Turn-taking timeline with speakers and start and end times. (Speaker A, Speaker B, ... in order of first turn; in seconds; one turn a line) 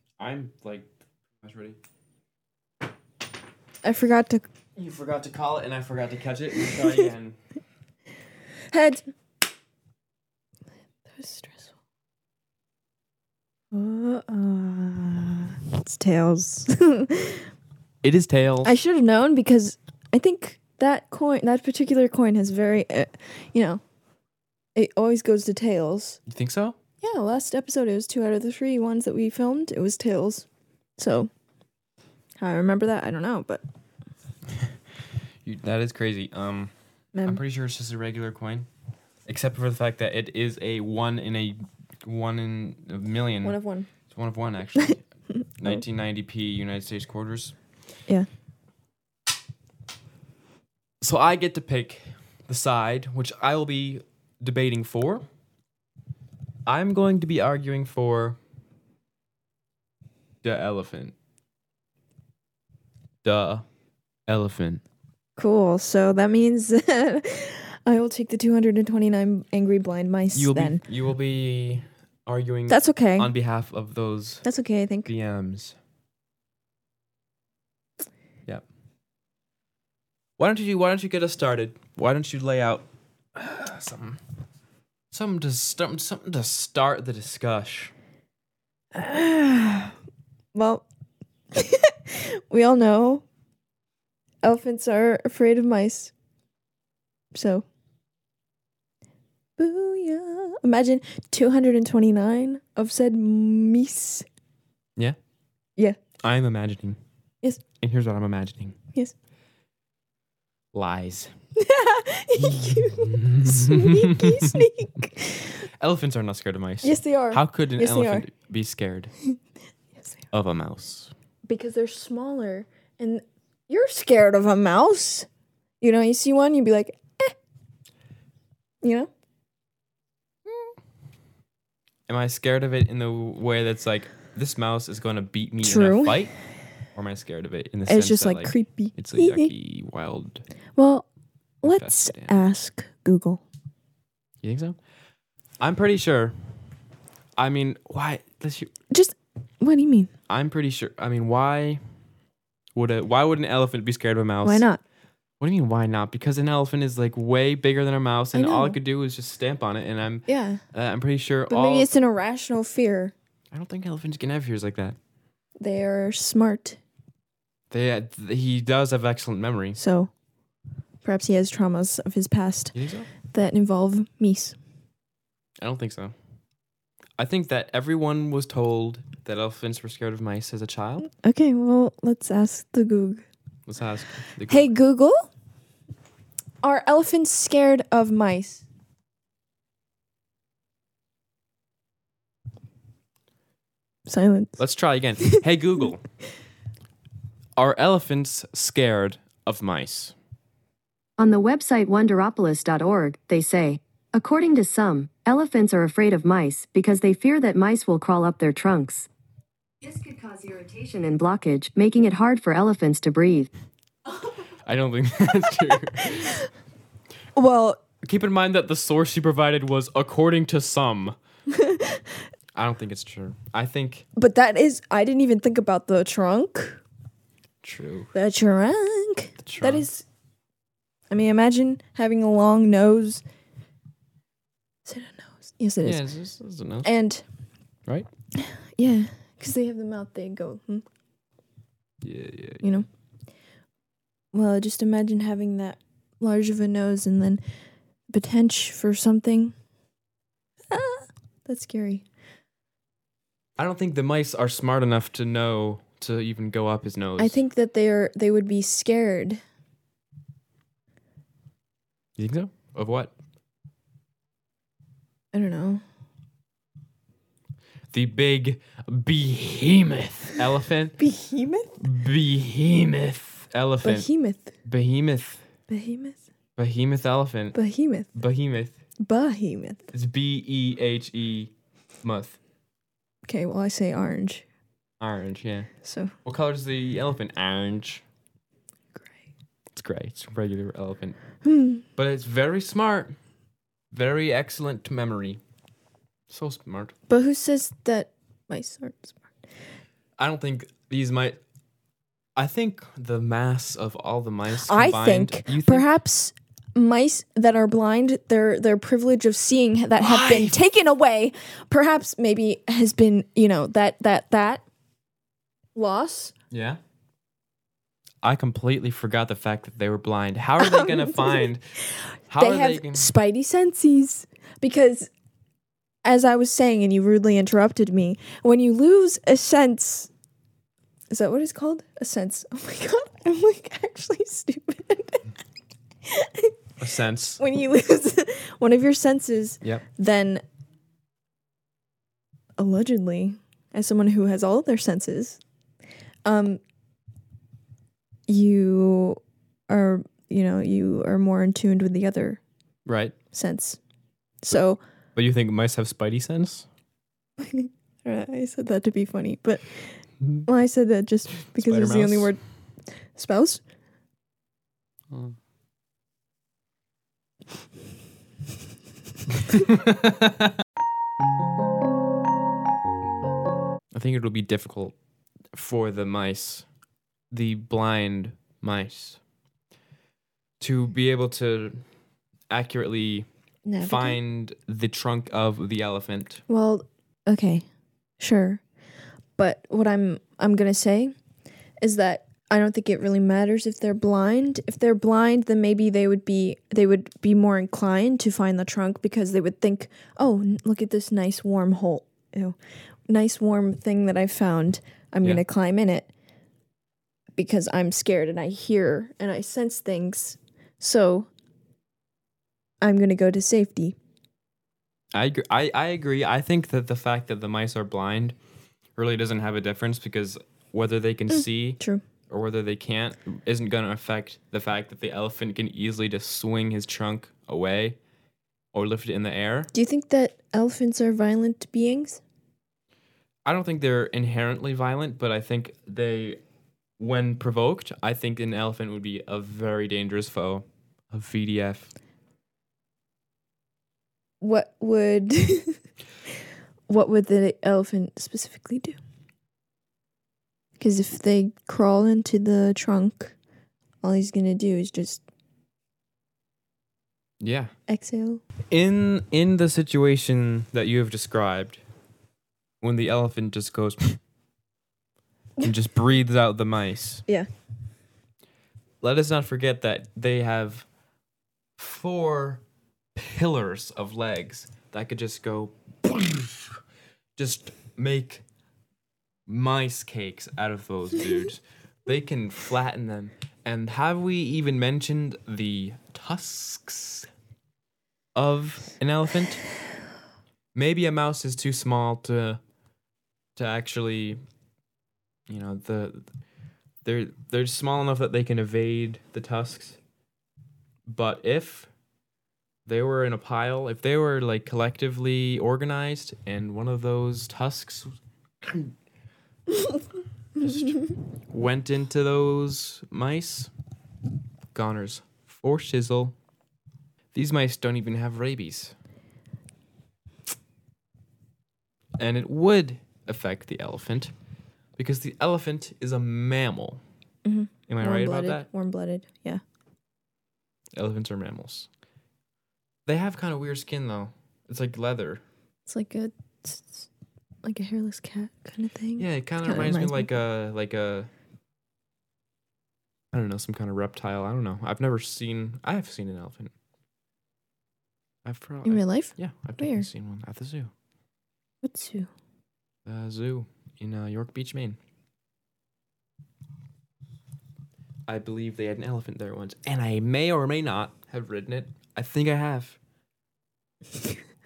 Speaker A: 0.2-0.9
Speaker A: 1.4-1.8
Speaker B: 3.8-4.5
Speaker A: 4.8-7.3
Speaker B: 8.7-9.0
Speaker B: 11.1-11.7
Speaker B: 13.7-17.5
Speaker A: 18.0-18.7
Speaker B: 18.6-23.8
Speaker B: 24.7-26.2
Speaker A: 26.3-26.8
Speaker B: 27.0-31.3
Speaker B: 32.4-33.6
Speaker A: 35.4-36.7
Speaker B: 37.1-37.4
Speaker A: 37.2-38.7
Speaker A: 39.2-47.5
Speaker B: 43.4-43.9
Speaker A: 51.0-55.2
Speaker A: 56.6-58.4
Speaker A: 60.4-61.1
Speaker A: 63.2-63.6
Speaker A: 64.3-64.8
Speaker B: 65.4-70.8
Speaker A: 70.3-74.5
Speaker B: 72.7-73.3
Speaker B: 74.4-75.1
Speaker A: 75.0-75.8
Speaker A: 80.4-84.2
Speaker A: 85.1-87.9
Speaker B: 88.9-90.0
Speaker B: 90.5-90.8
Speaker B: 91.5-93.2
Speaker B: 94.4-96.1
Speaker B: 97.3-97.6
Speaker B: 99.6-104.3
Speaker A: 106.2-107.0
Speaker A: 107.8-108.8
Speaker A: 110.7-111.3
Speaker B: 111.5-115.6
Speaker A: 112.4-114.7
Speaker A: 115.6-119.1
Speaker B: 116.8-118.2
Speaker A: 120.3-121.1
Speaker B: 121.5-125.3
Speaker B: 125.8-127.3
Speaker B: 128.8-129.1
Speaker A: 132.1-136.3
Speaker B: 135.6-136.3
Speaker A: 136.9-140.4
Speaker B: 137.9-139.5
Speaker B: 140.8-141.1
Speaker B: 141.6-143.4
Speaker A: 141.6-142.4
Speaker A: 144.4-144.8
Speaker A: 145.6-146.3
Speaker A: 147.4-148.7
Speaker B: 148.9-150.1
Speaker A: 150.3-151.8
Speaker A: 152.7-154.7
Speaker B: 154.4-154.8
Speaker A: 155.4-161.9
Speaker B: 158.3-158.8
Speaker B: 160.3-160.6
Speaker B: 161.5-163.1
Speaker A: 163.5-164.9
Speaker B: 165.6-166.8
Speaker A: 167.7-169.8
Speaker B: 169.8-170.1
Speaker B: 171.0-172.7
Speaker A: 172.7-173.1
Speaker B: 173.2-174.6
Speaker A: 175.6-176.1
Speaker A: 177.2-181.1
Speaker B: 181.1-183.2
Speaker A: 183.7-184.7
Speaker B: 184.5-185.3
Speaker B: 186.6-188.6
Speaker B: 194.1-194.6
Speaker A: 194.6-196.1
Speaker A: 197.6-200.1
Speaker C: 201.2-209.1
Speaker C: 209.8-213.5
Speaker A: 214.7-216.4
Speaker B: 216.0-216.3
Speaker B: 217.3-217.8
Speaker A: 218.0-221.2
Speaker B: 221.5-222.2
Speaker A: 222.5-224.1
Speaker B: 224.2-226.8
Speaker A: 227.6-228.1
Speaker B: 228.1-230.0
Speaker A: 229.4-229.9
Speaker B: 231.1-233.2
Speaker B: 234.8-236.0
Speaker A: 235.8-236.9
Speaker B: 236.8-237.2
Speaker B: 238.3-240.8
Speaker A: 242.0-242.7
Speaker B: 242.6-242.9
Speaker B: 244.3-247.4
Speaker B: 248.1-249.5
Speaker B: 250.7-252.0
Speaker A: 253.6-257.4
Speaker B: 257.2-259.4
Speaker A: 262.2-263.1
Speaker B: 265.3-265.8
Speaker A: 267.9-271.0
Speaker B: 271.0-271.8
Speaker A: 271.8-274.1
Speaker B: 273.8-274.5
Speaker A: 274.6-275.4
Speaker B: 275.7-276.2
Speaker A: 276.6-277.6
Speaker B: 277.5-278.1
Speaker A: 278.1-278.8
Speaker B: 279.0-279.9
Speaker A: 279.9-281.5
Speaker A: 282.0-282.4
Speaker B: 283.2-284.4
Speaker A: 285.0-285.7
Speaker B: 285.8-286.1
Speaker A: 286.2-288.0
Speaker A: 289.7-291.2
Speaker B: 291.4-291.8
Speaker A: 292.0-293.1
Speaker A: 293.9-295.4
Speaker A: 296.3-296.9
Speaker B: 297.1-299.2
Speaker A: 300.2-301.4
Speaker A: 302.4-305.9
Speaker B: 304.6-314.6
Speaker A: 310.0-310.6
Speaker B: 315.7-316.3
Speaker A: 316.5-316.8
Speaker A: 318.2-321.6
Speaker B: 320.6-321.5
Speaker A: 322.3-323.1
Speaker B: 322.4-325.1
Speaker B: 326.0-330.1
Speaker B: 331.1-335.3
Speaker B: 336.0-336.5
Speaker A: 336.8-337.4
Speaker B: 337.4-340.4
Speaker B: 342.6-345.4
Speaker B: 346.2-346.6
Speaker B: 348.3-352.4
Speaker A: 352.9-353.1
Speaker B: 353.3-353.8
Speaker B: 354.4-354.8
Speaker A: 355.1-356.7
Speaker B: 357.4-362.4
Speaker A: 361.5-362.3
Speaker B: 363.1-363.6
Speaker A: 365.1-365.4
Speaker A: 369.5-370.5
Speaker A: 373.9-374.9
Speaker A: 375.5-376.6
Speaker A: 377.3-379.2
Speaker A: 380.6-381.8
Speaker A: 382.5-383.3
Speaker B: 383.6-384.2
Speaker A: 383.8-386.4
Speaker B: 386.5-387.6
Speaker B: 388.2-388.6
Speaker B: 389.4-391.1
Speaker B: 391.8-402.6
Speaker B: 403.1-406.1
Speaker B: 407.3-411.3
Speaker B: 412.8-413.9
Speaker A: 415.1-418.4
Speaker A: 418.9-428.0
Speaker A: 428.7-429.7
Speaker B: 429.7-432.2
Speaker A: 433.4-436.4
Speaker A: 437.0-441.9
Speaker B: 444.4-445.8
Speaker B: 446.9-449.0
Speaker B: 450.8-453.3
Speaker B: 454.0-455.2
Speaker A: 457.4-457.7
Speaker B: 457.9-458.4
Speaker A: 458.7-461.8
Speaker A: 462.8-464.2
Speaker A: 465.6-467.2
Speaker A: 469.0-470.9
Speaker A: 471.8-472.6
Speaker A: 473.1-476.8
Speaker A: 477.4-478.4
Speaker A: 479.5-487.3
Speaker A: 488.3-489.6
Speaker A: 490.7-492.6
Speaker A: 493.6-494.4
Speaker A: 495.5-496.3
Speaker A: 497.0-500.0
Speaker A: 501.1-501.9
Speaker A: 502.9-508.9
Speaker A: 510.6-513.7
Speaker A: 514.7-516.3
Speaker A: 517.3-518.9
Speaker A: 522.2-524.3
Speaker A: 525.0-527.0
Speaker B: 527.4-529.6
Speaker A: 527.9-528.7
Speaker A: 531.0-531.9
Speaker A: 533.0-535.4
Speaker B: 535.9-537.1
Speaker B: 537.6-540.3
Speaker A: 539.2-541.3
Speaker A: 543.3-546.7
Speaker A: 548.4-550.9
Speaker B: 548.8-550.1
Speaker B: 551.8-552.3
Speaker A: 553.0-555.0
Speaker A: 558.3-563.0